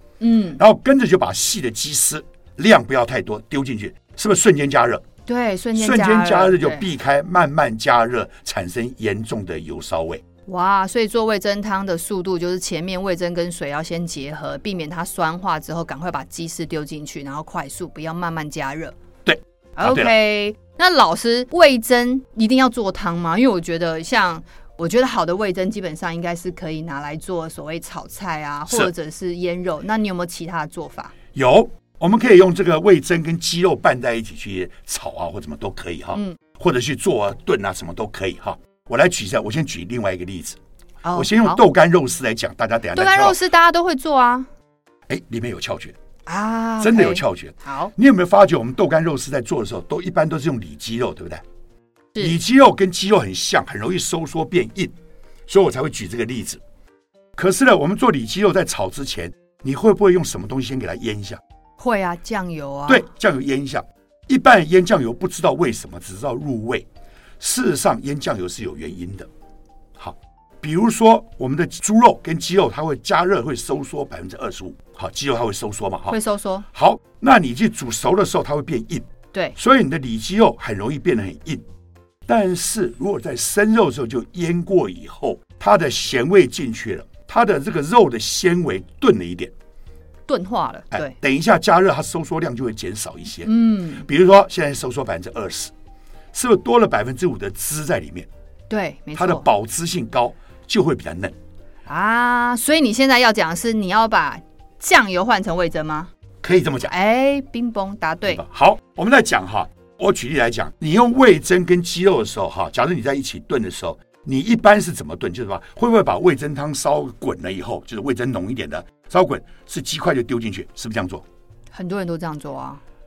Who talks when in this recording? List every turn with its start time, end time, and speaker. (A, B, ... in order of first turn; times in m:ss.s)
0:00.2-0:00.6 A
0:00.6-0:05.0 B
0:05.3-0:06.9 A
0:05.8-0:10.2 B
0:10.5-0:19.0 A
0:19.2-0:20.1 B
0:19.8-0:31.1 A
0:31.3-0:40.6 B
0:41.0-0:41.6 A
0:41.1-0:43.4 B
0:42.9-0:44.5 A
0:45.1-0:46.0 B
0:46.3-0:47.9 A
0:46.8-0:51.4 B
0:52.2-0:54.9 B
0:55.5-0:56.6 B
0:57.4-1:01.4 B
1:01.8-1:03.1 A
1:02.9-1:06.9 B
1:07.4-1:09.3 B
1:10.0-1:16.2 B
1:16.1-1:16.7 A
1:16.7-1:21.6 B
1:22.3-1:29.5 B
1:30.3-1:31.2 A
1:30.9-1:35.7 B
1:33.4-1:34.1 A
1:36.3-1:38.3 B
1:38.7-1:39.5 A
1:39.2-1:41.4 B
1:41.9-1:46.1 A
1:46.4-1:46.9 B
1:46.8-1:48.4 A
1:48.3-2:01.2 B
2:01.7-2:02.8 A